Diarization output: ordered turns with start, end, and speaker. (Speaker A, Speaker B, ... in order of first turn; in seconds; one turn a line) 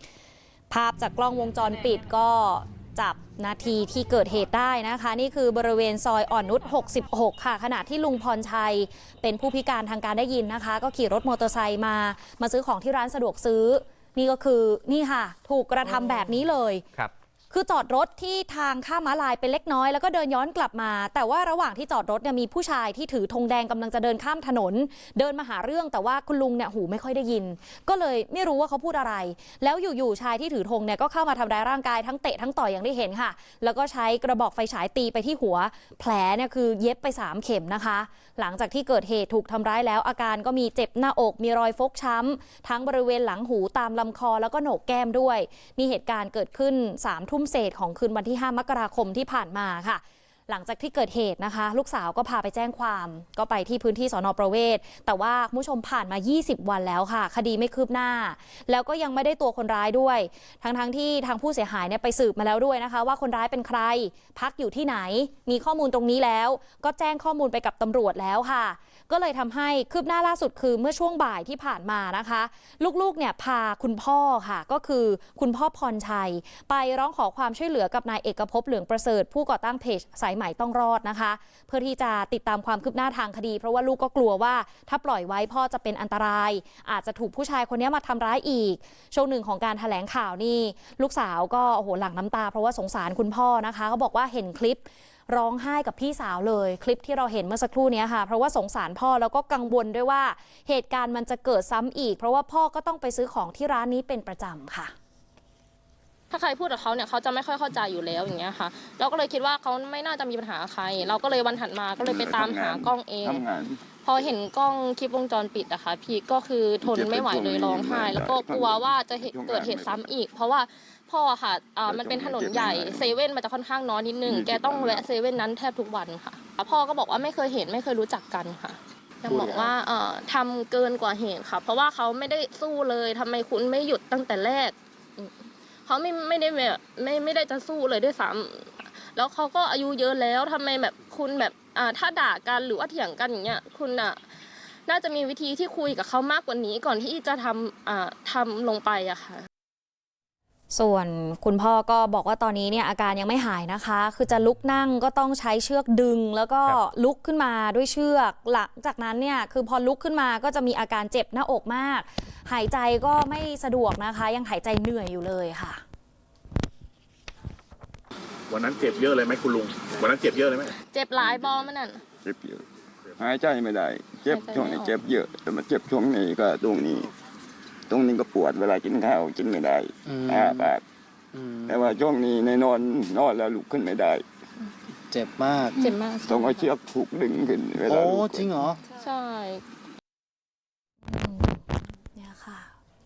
Speaker A: 0.7-16.8
Speaker A: 17.5-104.9
Speaker B: 106.3-113.4
Speaker C: 112.0-113.8
Speaker B: 114.0-135.3
Speaker C: 116.8-120.1
Speaker C: 121.8-123.2
Speaker C: 124.2-125.1
Speaker C: 129.2-129.7
Speaker B: 135.8-144.2
Speaker B: 144.9-149.5
Speaker A: 150.7-165.8
Speaker D: 168.5-170.7
Speaker B: 170.9-172.0
Speaker C: 172.2-172.6
Speaker C: 173.2-177.1
Speaker B: 174.3-174.9
Speaker C: 177.9-180.8
Speaker E: 180.1-180.7
Speaker E: 181.3-181.8
Speaker C: 181.7-184.2
Speaker E: 185.1-185.8
Speaker B: 185.8-186.7
Speaker C: 186.2-188.7
Speaker E: 187.8-188.8
Speaker B: 188.9-189.6
Speaker A: 191.0-192.7